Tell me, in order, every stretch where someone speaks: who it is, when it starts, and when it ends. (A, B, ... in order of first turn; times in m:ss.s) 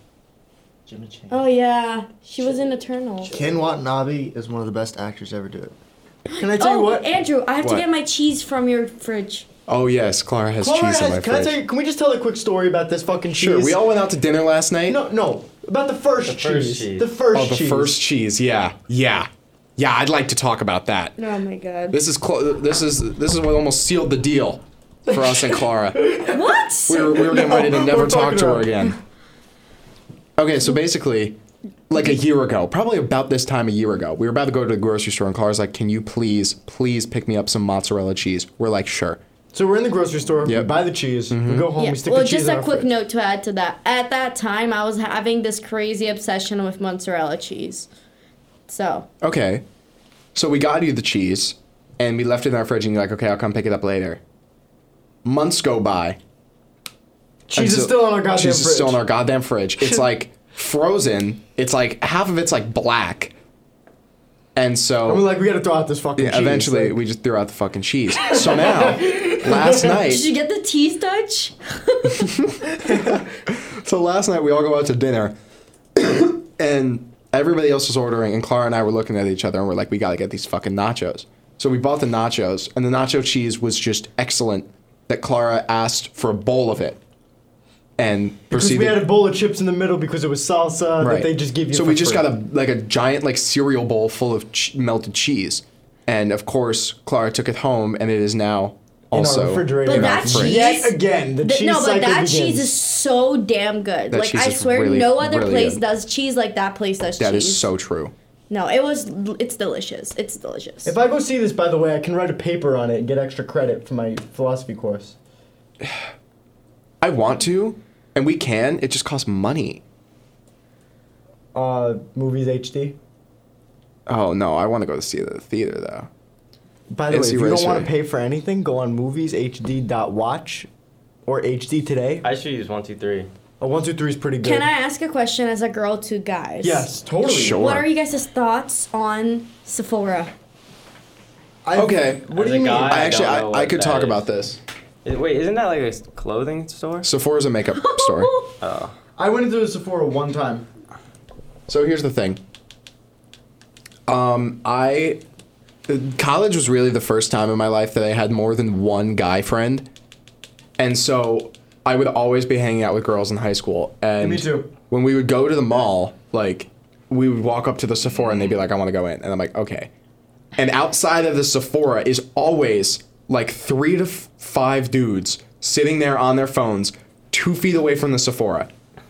0:00.9-0:01.4 A
0:01.3-0:03.4 B
0:03.3-0:05.7 C
0:06.3-0:09.4 B
0:06.4-0:07.1 A
0:09.7-0:11.6 D
0:10.6-0:13.8 A
0:13.3-0:15.0 D
0:14.9-0:18.0 A
0:16.2-0:17.1 E
0:17.3-0:21.2 D
0:21.2-0:22.0 B
0:21.9-0:26.0 D
0:25.1-0:28.7 A
0:26.3-0:27.2 B
0:26.9-0:28.9 D
0:30.4-0:31.4 D
0:31.9-0:39.2 D
0:39.5-0:42.9 A
0:40.4-0:41.7 D
0:41.8-0:47.9 B
0:48.7-0:49.1 B
0:49.2-0:49.6 D
0:50.3-0:54.2 D
0:55.2-0:56.2 D
0:57.5-0:59.0 A
0:57.5-1:03.3 D
0:59.8-1:00.0 A
1:04.5-1:05.2 D
1:05.0-1:07.0 A
1:06.2-1:10.3 D
1:08.3-1:10.0 A
1:10.0-1:12.3 B
1:12.3-1:15.3 D
1:16.0-1:27.0 D
1:28.0-1:29.0 D
1:28.5-1:32.3 A
1:31.0-1:40.7 D
1:39.1-1:42.8 A
1:39.8-1:47.7 B
1:44.1-1:45.8 D
1:47.2-1:48.1 D
1:48.5-1:50.9 B
1:50.8-1:55.2 A
1:55.8-1:56.1 D
1:57.0-1:59.8 D
2:01.5-2:03.0 A
2:04.1-2:06.1 D
2:06.9-2:10.7 A
2:07.1-2:07.9 D
2:11.2-2:12.2 A
2:12.2-2:13.3 E
2:13.6-2:14.7 A
2:14.4-2:16.9 B
2:16.6-2:17.6 A
2:17.2-2:17.9 D
2:17.5-2:20.3 B
2:21.6-2:23.1 A
2:21.7-2:24.6 D
2:22.3-2:24.2 E
2:25.0-2:27.1 E
2:27.0-2:28.3 D
2:27.8-2:28.4 B
2:28.6-2:28.9 E
2:29.2-2:30.6 A
2:31.7-2:32.4 D
2:34.1-2:35.2 D
2:35.9-2:39.9 D
2:40.8-2:49.9 D
2:44.2-2:44.7 A
2:50.6-2:58.7 D